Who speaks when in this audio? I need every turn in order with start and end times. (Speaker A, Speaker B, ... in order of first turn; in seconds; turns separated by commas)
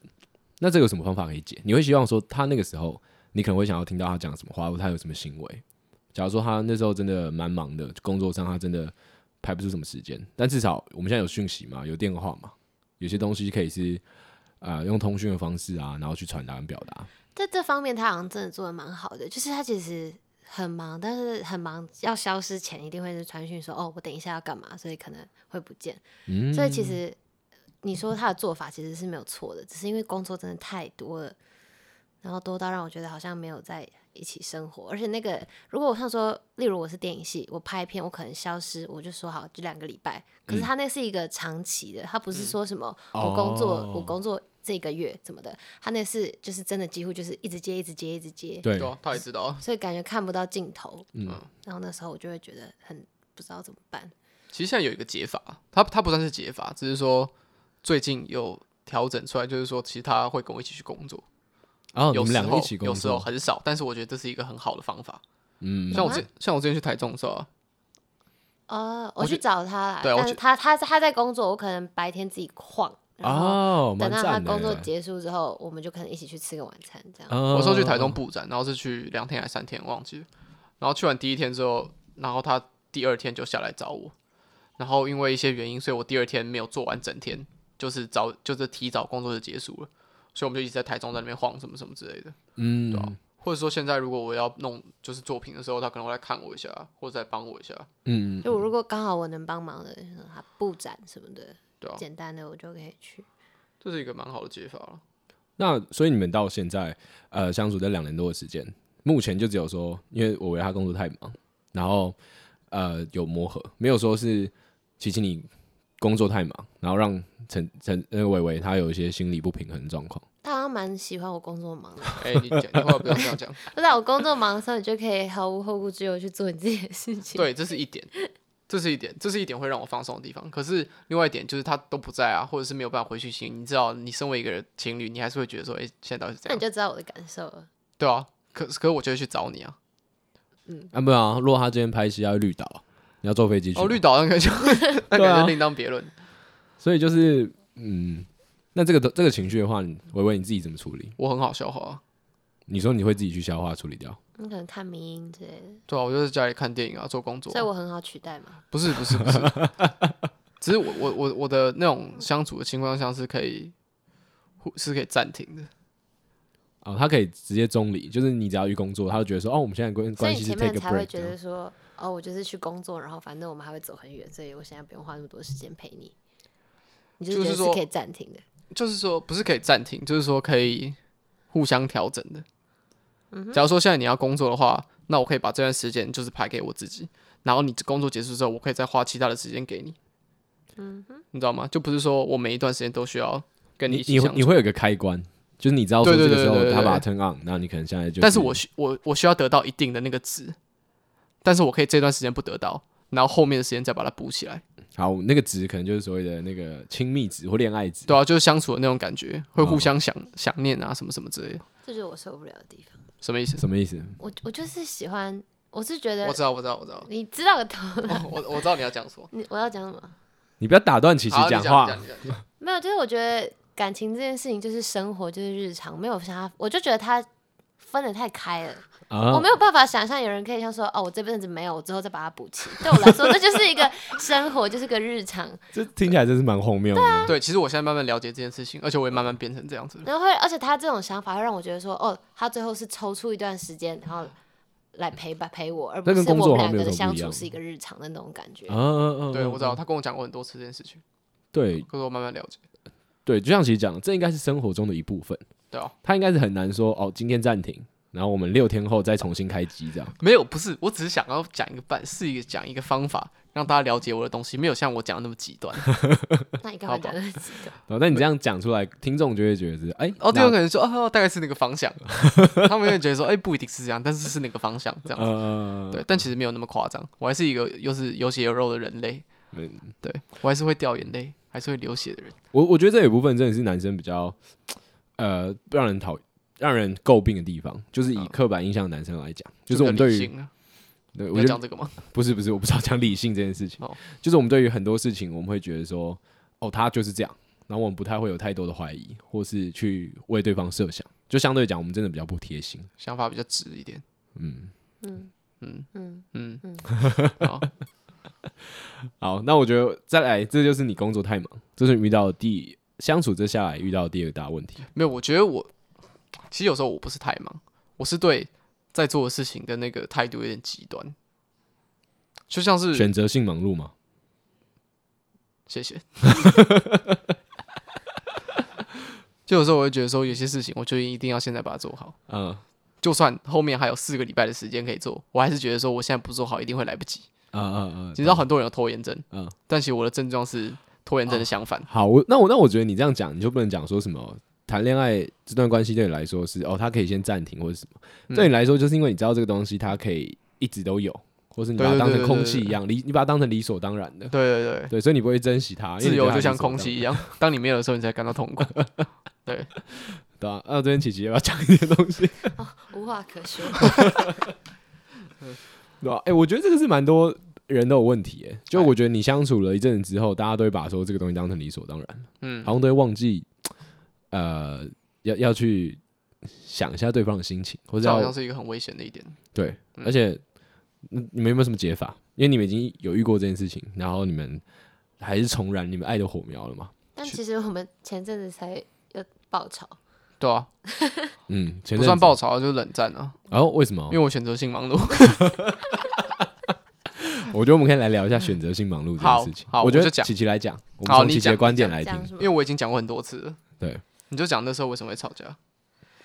Speaker A: 0.6-5.6, Speaker A: 6.1-14.0, Speaker A: 14.6-17.1, Speaker B: 17.4-27.2, Speaker A: 26.3-27.0, Speaker B: 27.8-31.4, Speaker B: 32.2-54.1, Speaker A: 43.1-44.1, Speaker A: 48.6-49.0, Speaker C: 48.8-49.6, Speaker A: 51.1-51.4, Speaker C: 54.5-57.3, Speaker C: 57.8-61.2, Speaker A: 62.0-63.3, Speaker C: 62.1-65.2, Speaker A: 65.6-66.2, Speaker C: 65.9-67.5, Speaker B: 65.9-66.2, Speaker B: 68.7-77.4, Speaker C: 70.0-70.4, Speaker A: 73.2-74.9, Speaker A: 77.3-78.2, Speaker C: 77.5-80.3, Speaker C: 80.8-84.1, Speaker C: 84.8-92.4, Speaker A: 92.6-93.2, Speaker C: 92.9-97.9, Speaker A: 98.0-98.6, Speaker B: 98.4-103.3, Speaker C: 103.8-105.0, Speaker A: 105.6-112.2, Speaker A: 112.7-115.5, Speaker A: 116.0-120.2, Speaker B: 120.4-122.2, Speaker C: 122.2-123.6, Speaker A: 122.7-123.2, Speaker B: 123.7-127.5, Speaker C: 127.3-128.1, Speaker C: 128.7-136.6, Speaker B: 136.5-137.7, Speaker C: 138.0-139.8, Speaker A: 140.9-144.0, Speaker C: 143.8-146.1, Speaker A: 145.1-145.6, Speaker A: 146.8-151.1, Speaker C: 151.2-152.0, Speaker A: 152.7-154.2, Speaker B: 154.4-155.8, Speaker C: 155.9-157.7, Speaker B: 157.5-158.6, Speaker C: 158.7-159.7, Speaker A: 159.2-159.9, Speaker C: 160.6-163.7, Speaker C: 164.6-165.7, Speaker A: 166.8-171.3, Speaker B: 170.2-176.1, Speaker B: 177.2-178.4, Speaker C: 177.3-177.8, Speaker C: 178.7-181.0, Speaker C: 181.5-182.4, Speaker B: 183.3-183.6, Speaker C: 183.5-190.0, Speaker B: 190.8-191.2, Speaker C: 191.3-194.6, Speaker A: 193.9-198.6, Speaker C: 196.0-197.1, Speaker C: 198.2-200.6, Speaker C: 201.4-204.6, Speaker A: 205.0-208.1, Speaker C: 208.1-211.6, Speaker A: 209.6-209.9, Speaker B: 211.8-213.0, Speaker C: 213.2-213.6, Speaker A: 213.6-214.2, Speaker B: 214.2-216.4, Speaker C: 216.2-217.1, Speaker B: 217.0-218.3, Speaker C: 218.1-219.3, Speaker B: 219.3-220.2, Speaker A: 220.6-222.4, Speaker C: 221.3-222.4, Speaker B: 222.6-227.3, Speaker B: 227.8-235.7, Speaker A: 229.1-229.5, Speaker A: 235.7-237.3, Speaker B: 236.9-237.3, Speaker C: 237.3-240.1, Speaker B: 240.0-244.3, Speaker B: 244.9-248.8, Speaker A: 246.1-247.5, Speaker A: 248.7-249.8, Speaker C: 249.3-251.0, Speaker A: 251.5-251.9, Speaker C: 251.9-252.6, Speaker A: 253.3-255.4, Speaker A: 256.0-260.1, Speaker C: 260.2-266.0, Speaker A: 266.0-266.4, Speaker B: 266.6-267.8, Speaker C: 266.9-267.1, Speaker A: 267.9-270.6, Speaker C: 270.2-279.3, Speaker A: 275.1-276.2, Speaker A: 279.5-279.9, Speaker C: 280.0-282.4, Speaker A: 282.5-290.3, Speaker C: 289.7-290.5, Speaker A: 291.1-302.9, Speaker C: 291.3-292.0, Speaker C: 303.0-304.0, Speaker A: 304.4-304.7, Speaker B: 305.0-305.3, Speaker C: 305.6-307.7, Speaker B: 305.9-306.9, Speaker A: 307.0-307.4, Speaker A: 308.6-314.9, Speaker C: 314.9-315.7, Speaker C: 316.5-321.1, Speaker C: 322.5-323.1, Speaker A: 322.9-323.9, Speaker C: 325.7-326.6, Speaker A: 326.4-327.2, Speaker C: 329.5-332.2, Speaker A: 332.3-332.6, Speaker C: 333.0-337.3, Speaker A: 337.5-338.4, Speaker C: 338.1-341.9, Speaker A: 341.3-354.3, Speaker C: 351.8-352.8, Speaker C: 354.3-354.9, Speaker A: 354.9-357.2, Speaker C: 356.0-358.9, Speaker C: 359.4-359.7, Speaker A: 359.9-362.6, Speaker B: 362.6-364.1, Speaker A: 363.8-364.3, Speaker A: 366.0-373.5, Speaker C: 372.4-372.7, Speaker A: 374.3-378.3, Speaker C: 378.0-379.4, Speaker A: 379.5-380.4, Speaker A: 381.0-384.6, Speaker A: 385.2-386.9, Speaker B: 387.2-390.0, Speaker C: 390.4-390.7, Speaker B: 390.9-391.3, Speaker A: 391.5-392.4, Speaker C: 392.0-393.4, Speaker A: 393.5-394.2, Speaker C: 394.1-395.8, Speaker A: 397.1-402.3, Speaker C: 399.2-400.3, Speaker C: 401.0-403.6, Speaker B: 401.8-402.5, Speaker C: 404.3-405.6